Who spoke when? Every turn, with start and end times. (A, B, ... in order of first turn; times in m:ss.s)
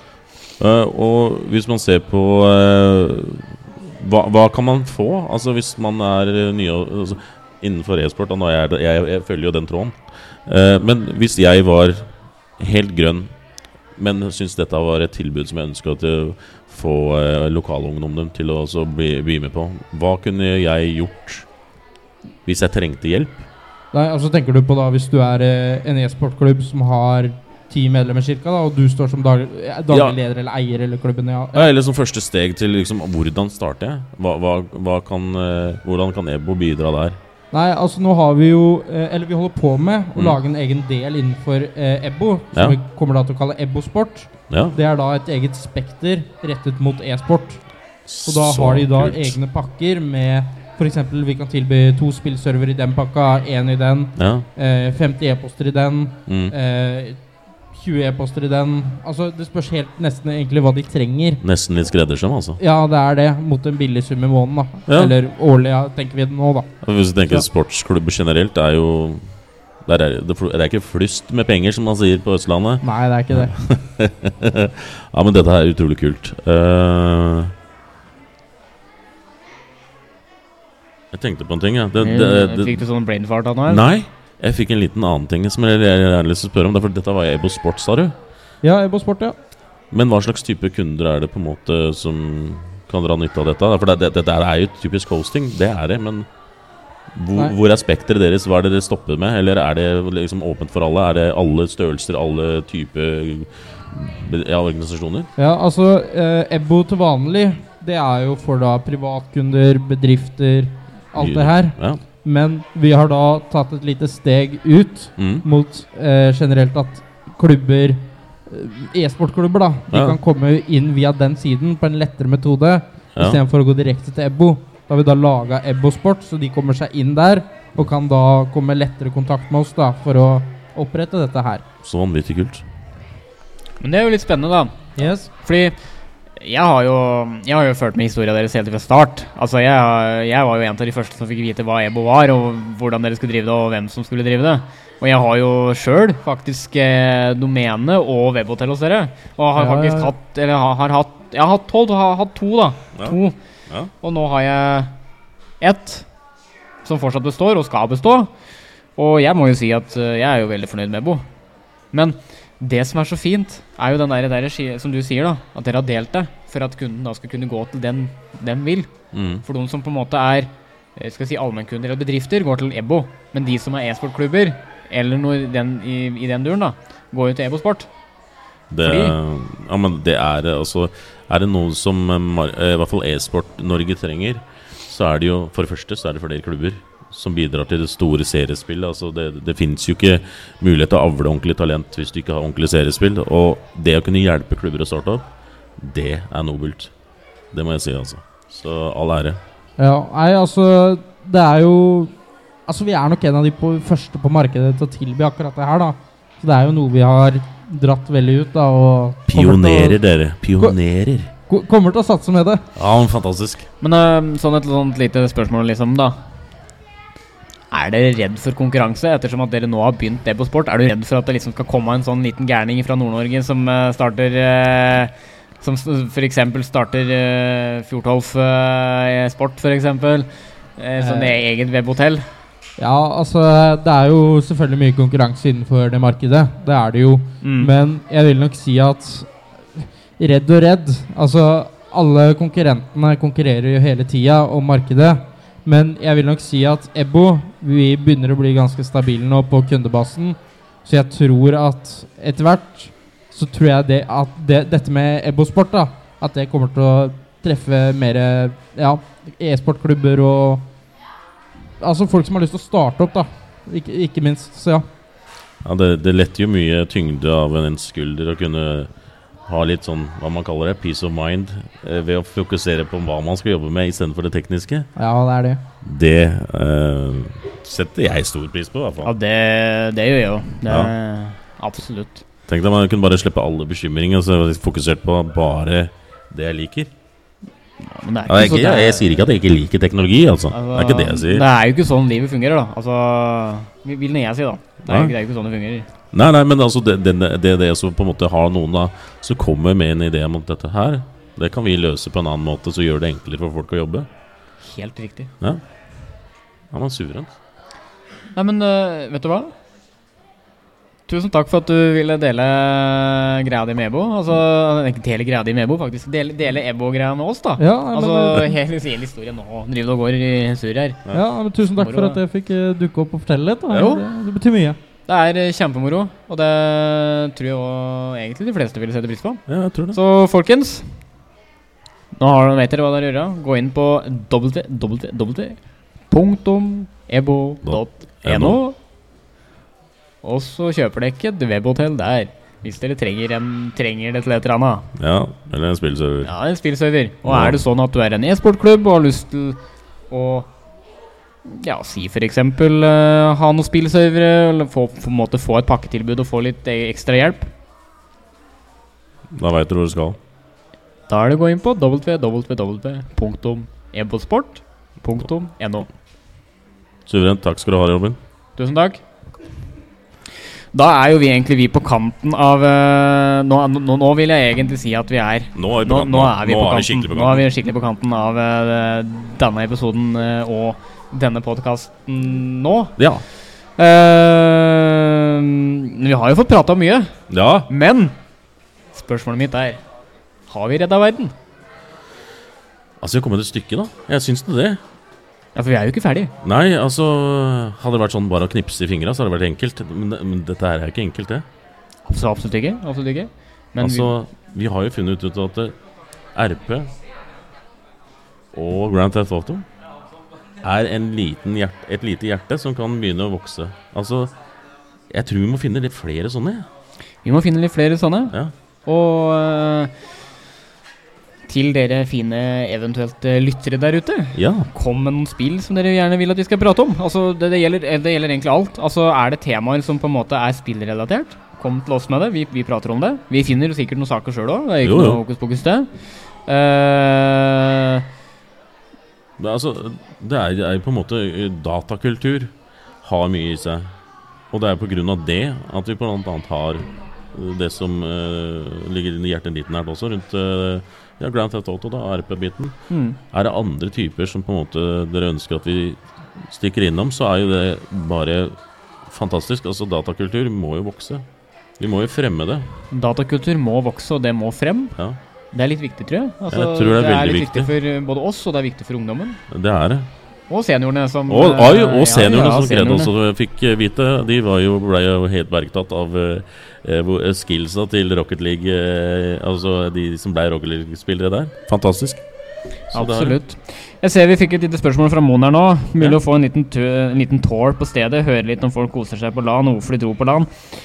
0:00.6-0:13.3 A
0:14.0-0:21.5 A
0:22.4-0:23.4 A
0:23.9-0:31.7 B
0:29.9-0:30.2 A
0:31.5-0:37.2 A
0:37.5-0:47.6 B
0:44.5-0:44.8 A
0:48.0-0:49.4 A
0:48.2-0:57.2 B
0:54.2-0:54.4 A
0:56.3-0:56.5 A
0:57.7-1:01.4 B
1:01.4-1:02.6 A
1:02.6-1:06.7 B
1:04.9-1:05.1 A
1:06.8-1:09.2 A
1:09.8-1:17.5 A
1:12.8-1:13.6 B
1:21.1-1:22.8 A
1:22.0-1:23.8 C
1:23.7-1:28.1 A
1:28.6-1:29.4 B
1:29.9-1:36.3 A
1:37.1-1:45.3 A
1:45.4-2:11.6 B
1:51.1-1:52.0 A
1:55.2-1:55.4 A
1:59.9-2:00.2 A
2:03.2-2:03.4 A
2:11.8-2:12.6 A
2:13.8-2:14.7 C
2:15.0-2:15.3 B
2:15.4-2:15.8 C
2:16.4-2:33.4 C
2:29.6-2:30.1 B
2:34.0-2:34.9 C
2:35.6-2:36.0 C
2:36.8-2:38.3 C
2:39.0-2:41.2 C
2:41.9-2:48.9 C
2:49.1-2:49.4 A
2:49.4-2:57.9 C
2:58.7-3:15.2 A
2:58.8-2:59.1 C
3:15.8-3:16.9 A
3:17.5-3:19.4 A
3:19.8-3:22.1 B
3:22.7-3:30.0 B
3:29.3-3:31.3 A
3:31.5-3:32.7 B
3:32.8-3:33.6 A
3:33.8-3:36.2 C
3:37.7-3:52.3 C
3:51.0-3:51.4 B
3:52.8-4:20.7 B
3:57.4-3:57.7 C
4:21.8-4:24.8 B
4:25.6-4:28.9 A
4:29.4-4:34.9 A
4:35.0-4:35.6 B
4:35.8-4:39.1 A
4:39.0-4:42.2 C
4:40.7-4:40.9 A
4:42.5-4:46.9 A
4:47.8-4:49.2 C
4:48.2-4:51.5 A
4:50.5-4:55.9 C
4:54.8-4:55.1 A
4:56.1-5:04.1 A
5:04.6-5:05.3 C
5:06.7-5:07.3 A
5:08.3-5:09.5 C
5:11.1-5:21.0 C
5:17.6-5:18.5 B
5:21.1-5:24.8 B
5:21.8-5:22.2 C
5:23.7-5:24.0 C
5:25.1-5:30.9 C
5:29.5-5:30.0 A
5:32.2-5:35.6 C
5:36.1-5:38.8 C
5:37.6-5:38.6 A
5:40.2-5:44.9 C
5:45.0-5:46.3 A
5:46.2-5:49.6 C
5:47.2-5:47.6 A
5:50.1-5:50.5 C
5:51.4-5:57.5 C
5:59.3-6:00.2 A
6:01.1-6:05.9 C
6:07.0-6:08.2 A
6:08.6-6:09.0 C
6:10.7-6:22.9 C
6:15.5-6:17.5 A
6:23.0-6:23.2 A
6:23.8-6:27.1 C
6:27.3-6:27.7 A
6:27.7-6:28.1 C
6:28.9-6:29.8 C
6:30.5-6:31.3 C
6:33.0-6:34.8 A
6:35.5-6:36.3 C
6:36.4-6:41.4 A
6:42.0-6:44.1 C
6:43.8-6:45.7 A
6:46.3-6:46.9 A
6:48.5-6:49.6 A
6:50.6-6:54.3 A
6:55.1-6:56.7 A
6:57.2-6:59.9 C
7:01.5-7:15.9 C
7:04.3-7:04.7 A
7:14.8-7:15.2 A
7:16.4-7:18.0 C
7:19.4-7:23.9 A
7:24.5-7:32.8 A
7:32.9-7:33.2 C
7:33.3-7:41.2 A
7:41.8-7:42.7 A
7:42.9-7:45.0 C
7:45.5-7:49.4 C
7:46.5-7:47.7 A
7:49.5-7:50.1 A
7:50.5-7:53.1 C
7:51.3-8:02.2 A
8:02.9-8:03.4 A
8:02.9-8:10.7 C